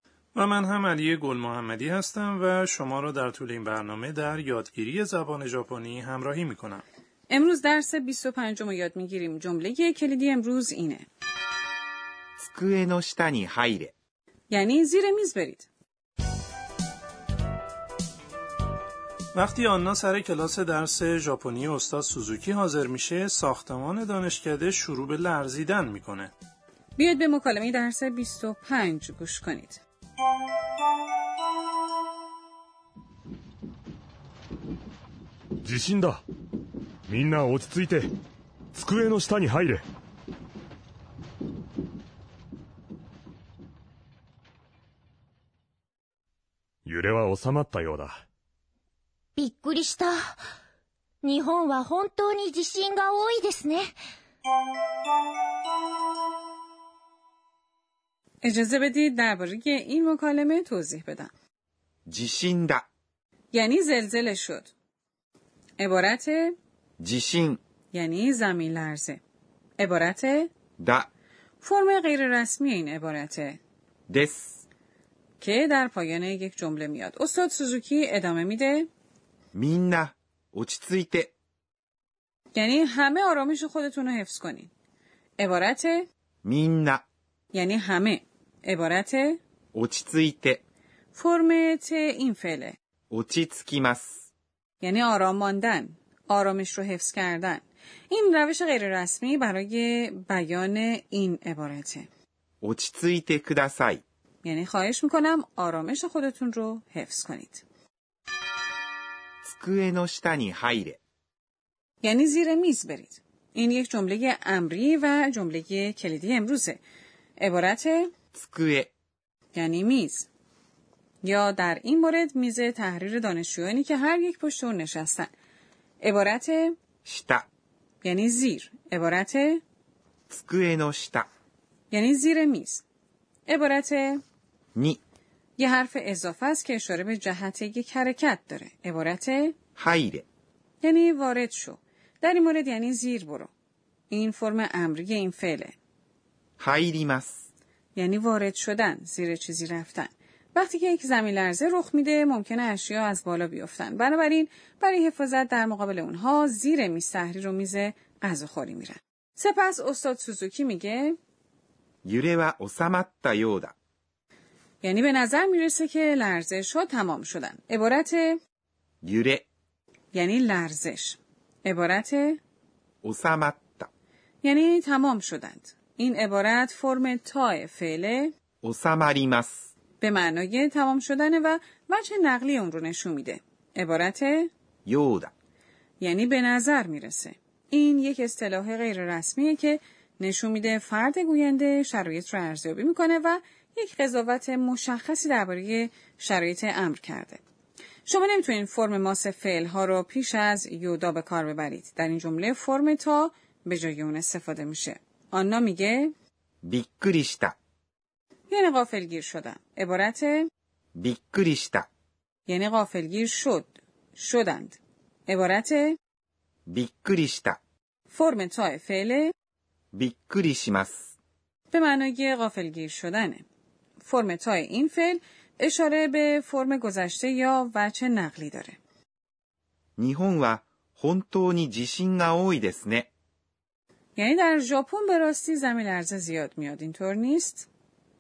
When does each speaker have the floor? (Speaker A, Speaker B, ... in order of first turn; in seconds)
Speaker A: 0.3-6.8, 19.4-26.3
Speaker B: 7.3-11.1, 14.5-15.7, 27.0-29.8, 58.4-61.3, 63.5-64.7, 65.8-66.6, 67.9-69.2, 69.8-70.5, 71.6-73.6, 75.4-78.9, 82.5-84.7, 85.4-86.1, 87.5-89.4, 91.1-92.8, 94.8-102.1, 104.4-107.6, 112.0-116.8, 117.4-118.1, 119.5-120.3, 121.2-125.3, 126.0-126.8, 128.0-129.6, 131.9-132.8, 133.5-134.2, 135.6-139.6, 140.8-143.5, 144.1-145.7, 148.0-161.2, 164.8-168.4, 170.1-172.4, 174.4-178.3, 180.0-184.5, 186.0-197.4, 198.1-206.1, 208.5-210.5, 212.5-216.0, 218.1-219.3, 221.7-223.4, 224.0-228.8, 234.2-237.7
Speaker C: 12.4-13.9, 62.1-62.9, 67.0-67.6, 70.8-71.1, 74.1-74.6, 79.5-81.3, 86.4-87.0, 89.7-90.6, 93.1-94.3, 102.6-104.0, 109.4-111.0, 118.3-118.9, 127.0-127.5, 130.3-131.3, 134.8-135.0, 139.8-140.3, 146.6-147.5, 162.1-163.7, 169.0-169.5, 173.0-173.9, 178.6-179.7, 184.9-185.3, 206.6-207.6, 211.0-211.9, 216.7-217.6, 219.9-221.1, 230.0-233.1
Speaker D: 35.6-36.2, 37.1-38.1, 38.7-39.9, 46.9-48.2
Speaker E: 49.4-50.4, 51.2-54.0